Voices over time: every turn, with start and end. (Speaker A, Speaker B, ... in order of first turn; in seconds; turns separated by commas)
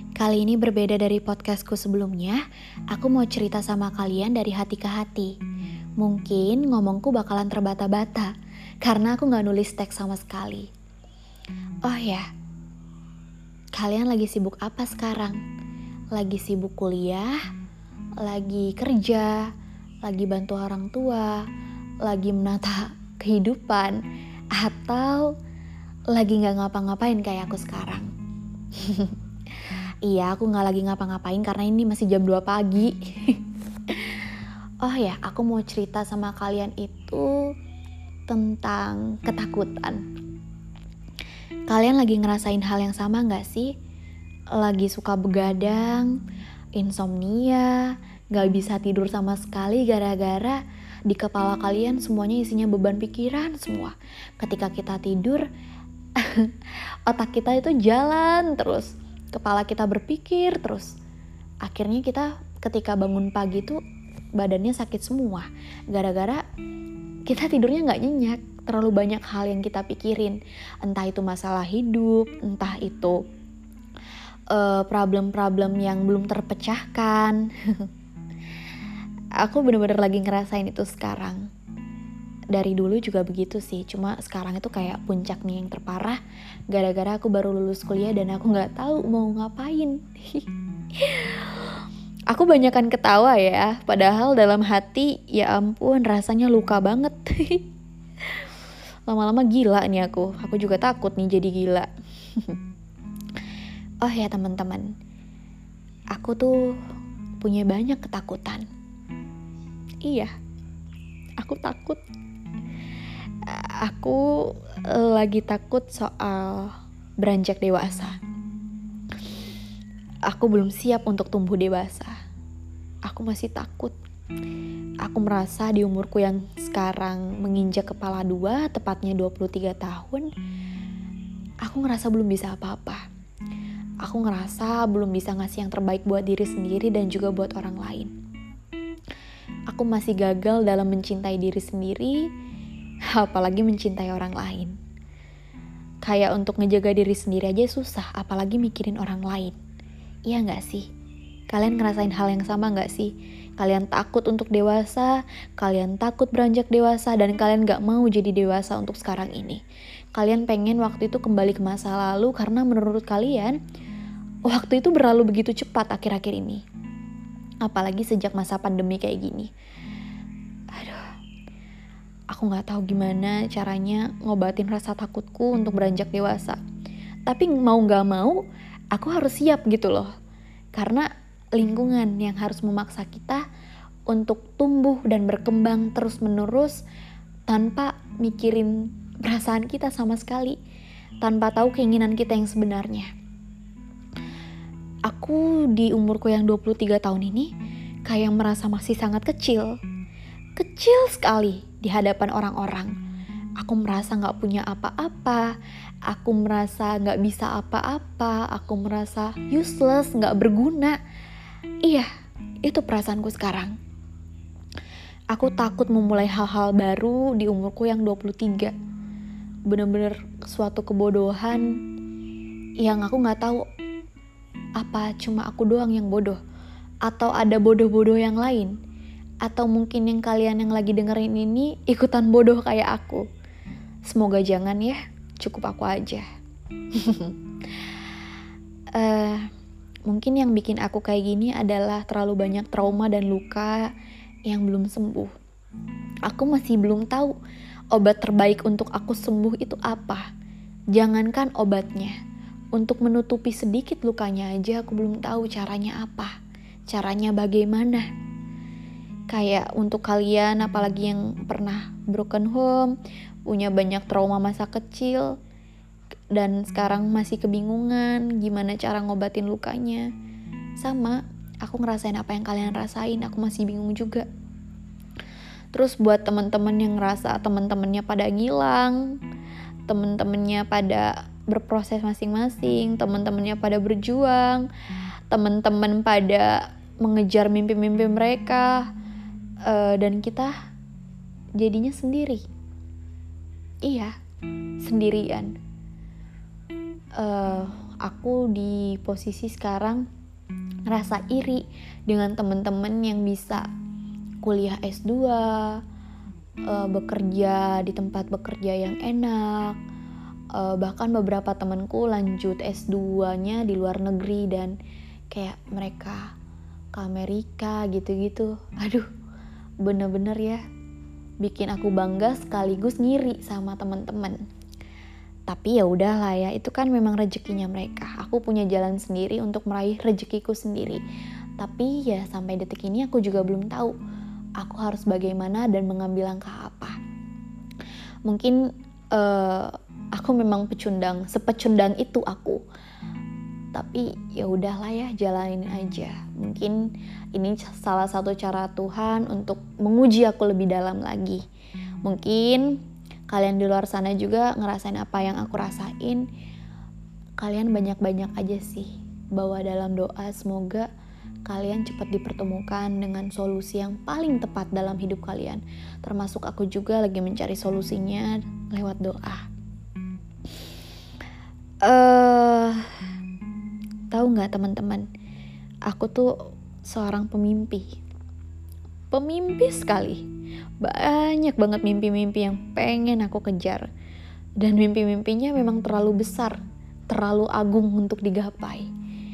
Speaker A: 0.2-5.3, Speaker A: 6.0-10.7, Speaker A: 11.8-12.3, Speaker A: 13.7-15.4, Speaker A: 16.1-17.4, Speaker A: 18.2-19.5, Speaker A: 20.0-21.5, Speaker A: 22.0-24.0, Speaker A: 24.5-25.3, Speaker A: 26.1-28.1, Speaker A: 28.7-37.5, Speaker A: 38.3-40.0, Speaker A: 41.7-43.7, Speaker A: 44.5-46.2, Speaker A: 46.7-55.5, Speaker A: 56.1-60.9, Speaker A: 61.6-63.8, Speaker A: 64.3-66.4, Speaker A: 67.3-73.2, Speaker A: 74.5-77.9, Speaker A: 79.4-81.5, Speaker A: 82.5-97.7, Speaker A: 99.1-102.6, Speaker A: 104.0-104.9, Speaker A: 106.1-106.8, Speaker A: 107.4-108.7, Speaker A: 110.0-110.3, Speaker A: 111.4-112.0, Speaker A: 113.4-118.2, Speaker A: 120.3-122.1, Speaker A: 123.0-124.0, Speaker A: 125.0-130.3, Speaker A: 131.6-133.0, Speaker A: 134.0-138.1, Speaker A: 139.7-142.3, Speaker A: 143.1-144.7, Speaker A: 146.0-149.6, Speaker A: 150.3-150.8, Speaker A: 151.5-159.6, Speaker A: 160.1-163.6, Speaker A: 164.4-166.6, Speaker A: 167.6-169.5, Speaker A: 170.7-171.1, Speaker A: 172.3-176.6, Speaker A: 177.3-180.1, Speaker A: 180.7-183.4, Speaker A: 184.1-186.8, Speaker A: 187.5-190.6, Speaker A: 191.2-193.1, Speaker A: 195.1-197.5, Speaker A: 198.0-199.8, Speaker A: 200.6-202.9, Speaker A: 203.6-205.5, Speaker A: 206.1-211.0, Speaker A: 212.6-213.8, Speaker A: 215.3-218.7, Speaker A: 219.7-221.8, Speaker A: 222.8-223.6, Speaker A: 224.8-226.4, Speaker A: 227.0-228.8, Speaker A: 229.4-233.2, Speaker A: 234.1-236.2, Speaker A: 236.9-237.9, Speaker A: 238.9-239.5, Speaker A: 240.1-243.9, Speaker A: 244.4-245.3, Speaker A: 246.2-247.3, Speaker A: 247.9-250.2, Speaker A: 250.9-252.2, Speaker A: 252.7-256.3, Speaker A: 256.9-258.1, Speaker A: 259.3-262.9, Speaker A: 263.4-265.3, Speaker A: 266.3-270.1, Speaker A: 270.8-274.3, Speaker A: 275.7-279.2, Speaker A: 279.9-284.7, Speaker A: 285.3-288.9, Speaker A: 289.6-290.5, Speaker A: 291.6-292.4, Speaker A: 293.8-294.1, Speaker A: 294.8-295.5, Speaker A: 297.1-300.1, Speaker A: 300.9-303.6, Speaker A: 304.4-305.8, Speaker A: 306.7-309.8, Speaker A: 310.5-314.8, Speaker A: 315.3-316.3, Speaker A: 316.9-319.1, Speaker A: 319.8-320.6, Speaker A: 321.4-324.4, Speaker A: 325.5-331.0, Speaker A: 331.6-333.9, Speaker A: 334.6-336.9, Speaker A: 338.2-338.6, Speaker A: 339.1-342.6, Speaker A: 343.7-351.4, Speaker A: 352.0-352.8, Speaker A: 353.3-356.2, Speaker A: 357.4-360.9, Speaker A: 361.4-369.5, Speaker A: 371.8-372.9, Speaker A: 374.1-375.1, Speaker A: 375.9-377.9, Speaker A: 379.1-380.2, Speaker A: 380.8-383.9, Speaker A: 384.6-388.9